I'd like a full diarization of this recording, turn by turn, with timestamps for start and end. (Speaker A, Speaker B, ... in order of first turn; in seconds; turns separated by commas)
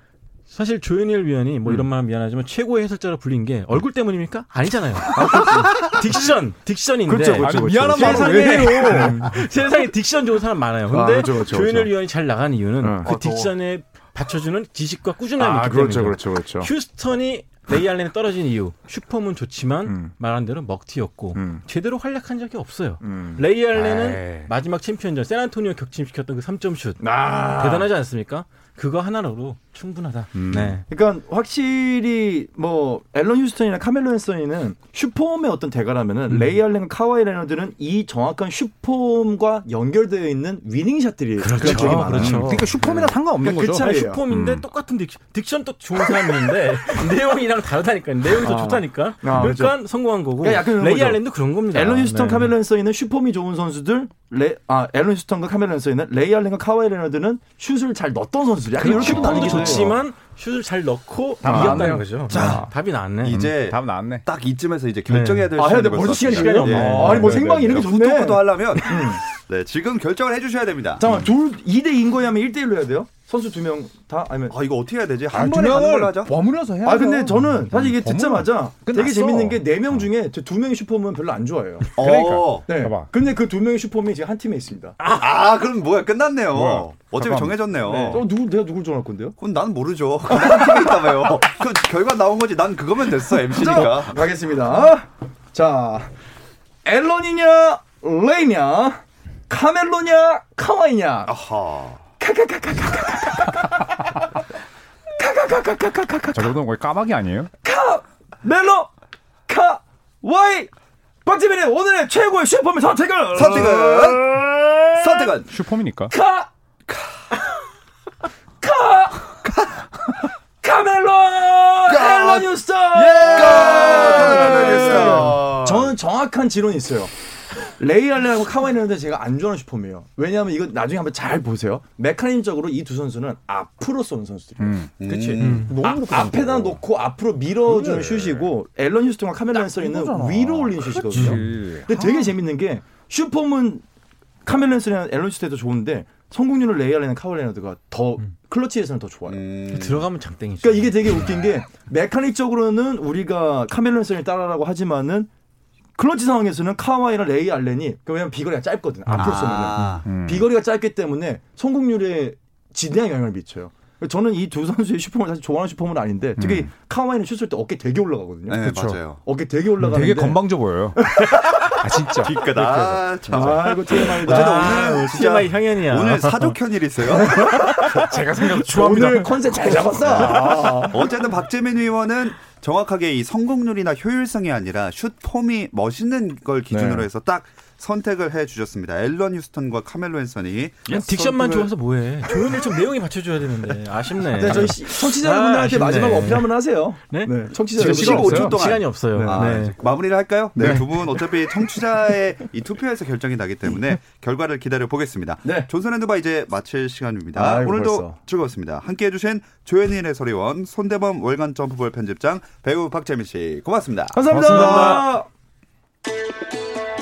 Speaker A: 0.5-30.8, Speaker B: 5.1-5.9, Speaker C: 5.2-5.7, Speaker B: 7.1-9.3, Speaker C: 7.4-9.4, Speaker B: 10.9-11.9, Speaker B: 12.8-13.5, Speaker B: 15.4-16.7, Speaker B: 19.9-20.1, Speaker B: 21.3-21.6, Speaker B: 23.0-23.4, Speaker C: 23.7-24.5, Speaker B: 27.0-27.9, Speaker C: 30.4-30.8, Speaker B: 30.9-44.2, Speaker A: 36.3-36.5, Speaker A: 41.4-42.8, Speaker C: 41.6-44.6, Speaker A: 43.8-52.5, Speaker B: 48.4-49.7, Speaker D: 49.4-49.7, Speaker B: 50.4-59.9, Speaker C: 58.8-59.9, Speaker A: 58.8-63.4, Speaker C: 61.4-62.6, Speaker B: 61.5-62.7, Speaker D: 62.3-62.7, Speaker D: 63.2-71.1, Speaker C: 63.3-64.2, Speaker A: 65.1-67.3, Speaker B: 65.5-69.2, Speaker C: 66.7-67.9, Speaker B: 71.0-74.6, Speaker D: 74.5-76.3, Speaker C: 75.3-80.0, Speaker B: 76.8-81.9, Speaker D: 82.0-82.7, Speaker C: 82.0-83.1, Speaker B: 82.7-85.0, Speaker D: 85.0-88.3, Speaker C: 86.5-87.6, Speaker B: 87.9-89.4, Speaker D: 89.4-94.2, Speaker B: 93.5-96.1, Speaker B: 96.8-101.4, Speaker D: 101.3-102.1, Speaker B: 102.2-104.2, Speaker B: 105.2-106.5, Speaker C: 106.3-107.5, Speaker B: 107.6-108.9, Speaker B: 109.5-110.7, Speaker B: 111.2-115.4, Speaker D: 113.3-114.3, Speaker D: 115.0-115.5, Speaker C: 115.5-116.1, Speaker B: 116.1-116.5, Speaker D: 116.9-117.2, Speaker B: 118.6-119.3, Speaker B: 120.6-127.1, Speaker D: 121.9-125.9, Speaker C: 123.4-125.4, Speaker B: 127.7-134.9, Speaker C: 134.6-136.7, Speaker D: 135.0-136.8, Speaker A: 135.1-135.8, Speaker B: 135.6-143.8, Speaker C: 137.7-138.4, Speaker C: 139.5-142.4, Speaker A: 141.1-141.4, Speaker B: 144.4-149.4, Speaker D: 149.3-150.1, Speaker A: 149.7-151.3, Speaker B: 150.6-155.3, Speaker B: 156.0-168.7, Speaker D: 159.2-160.1, Speaker C: 160.1-160.5, Speaker C: 166.4-166.7, Speaker D: 168.5-169.2, Speaker C: 168.6-169.0, Speaker B: 169.2-175.0, Speaker C: 169.8-172.7, Speaker D: 172.2-177.6, Speaker C: 173.3-173.6, Speaker A: 174.0-176.6, Speaker B: 177.1-181.1, Speaker C: 177.8-180.8, Speaker D: 179.8-191.7, Speaker B: 186.7-187.1, Speaker A: 190.9-196.6, Speaker B: 194.3-198.6, Speaker A: 197.1-199.8, Speaker D: 197.7-215.0, Speaker C: 197.8-198.6, Speaker B: 199.1-199.7, Speaker B: 200.6-200.8, Speaker C: 200.6-200.9, Speaker B: 205.4-205.7, Speaker B: 207.3-208.2, Speaker B: 214.1-215.3, Speaker C: 214.3-215.2, Speaker A: 214.5-215.1